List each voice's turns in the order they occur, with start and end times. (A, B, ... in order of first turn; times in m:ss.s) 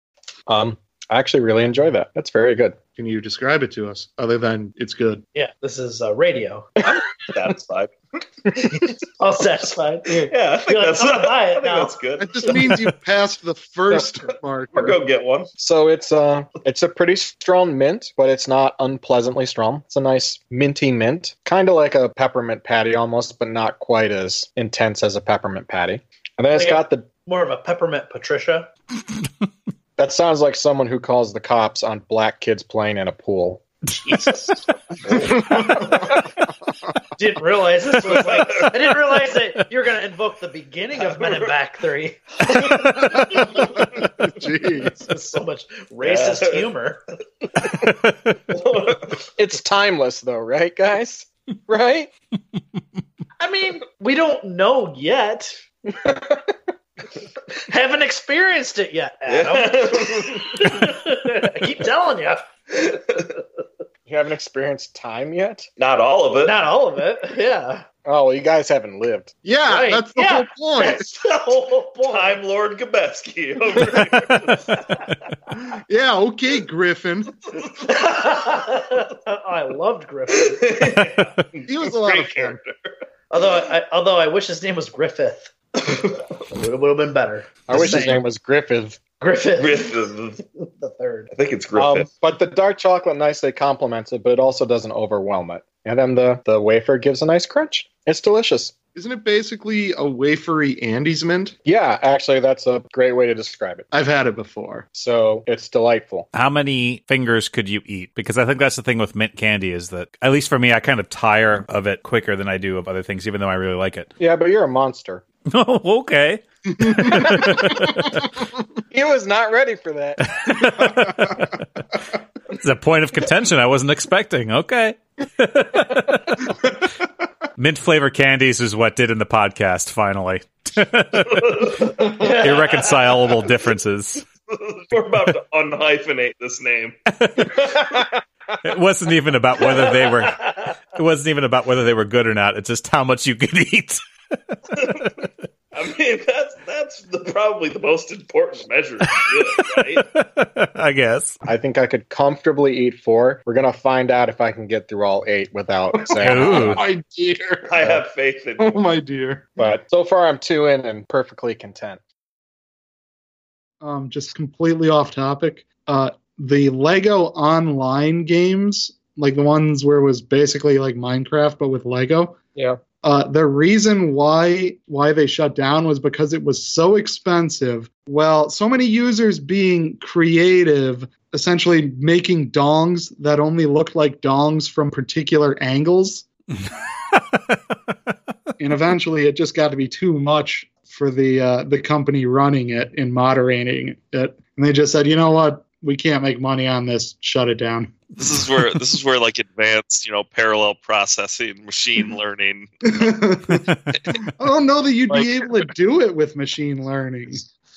0:00.5-0:02.8 A
0:03.0-0:05.2 B
0:05.3-0:06.7 C
0:06.8-0:07.9 D
0:09.2-0:11.9 C
0:10.1-0:12.8 D
0:12.2-0:15.0 B
0:14.7-0:15.5 D
0:15.6-0:27.0 A
0:26.5-0:28.7 C
0:30.0-0:33.6 A
0:34.1-0:34.5 C
0:35.1-0:35.8 D
0:35.6-0:35.9 B
0:37.2-0:43.2 C
0:38.1-0:38.7 D
0:41.1-0:41.4 D
0:43.2-0:45.0 B
0:45.0-0:47.0 C
0:46.0-0:46.7 D
0:48.5-0:49.1 D
0:49.4-0:52.1 A
0:53.4-0:55.6 C
0:56.0-0:56.4 A
0:57.7-1:02.5 C
0:59.3-1:00.7 D
1:02.7-1:03.2 D
1:04.1-1:05.7 A
1:05.8-1:06.6 D
1:06.4-1:07.8 C
1:08.0-1:09.4 A
1:09.4-1:11.1 B
1:09.7-1:12.4 C
1:11.2-1:14.6 D
1:15.9-1:17.3 B
1:17.9-1:21.0 C
1:20.6-1:22.9 D
1:21.6-1:22.6 B
1:23.3-1:28.2 C
1:27.7-1:29.0 A
1:29.2-1:29.9 C
1:29.6-1:30.4 D
1:30.8-1:31.3 C
1:31.3-1:32.1 D
1:31.8-1:38.8 A
1:38.9-1:41.6 B
1:41.6-1:43.9 A
1:43.9-1:44.8 B
1:44.9-1:46.3 A
1:46.3-1:54.1 E
1:54.2-1:55.2 A
1:55.5-1:58.2 E
1:56.9-1:57.6 B
1:58.9-2:00.2 A
2:00.3-2:01.6 E
2:02.6-2:06.6 E
2:07.6-2:14.2 E
2:11.4-2:11.9 D
2:12.2-2:12.8 C
2:14.5-2:17.0 D
2:17.2-2:17.6 E
2:18.6-2:24.0 E
2:24.8-2:25.1 D
2:25.7-2:30.0 D
2:30.0-2:31.4 E
2:31.4-2:36.8 A
2:36.1-2:38.0 B
2:36.2-2:36.8 E
2:37.7-2:38.9 D
2:38.6-2:39.4 B
2:39.6-2:42.0 A
2:43.8-2:52.4 B
2:52.5-2:52.8 A
2:53.0-3:06.2 B
3:08.6-3:18.0 B
3:18.2-3:23.0 F
3:22.8-3:27.5 B
3:25.1-3:25.5 F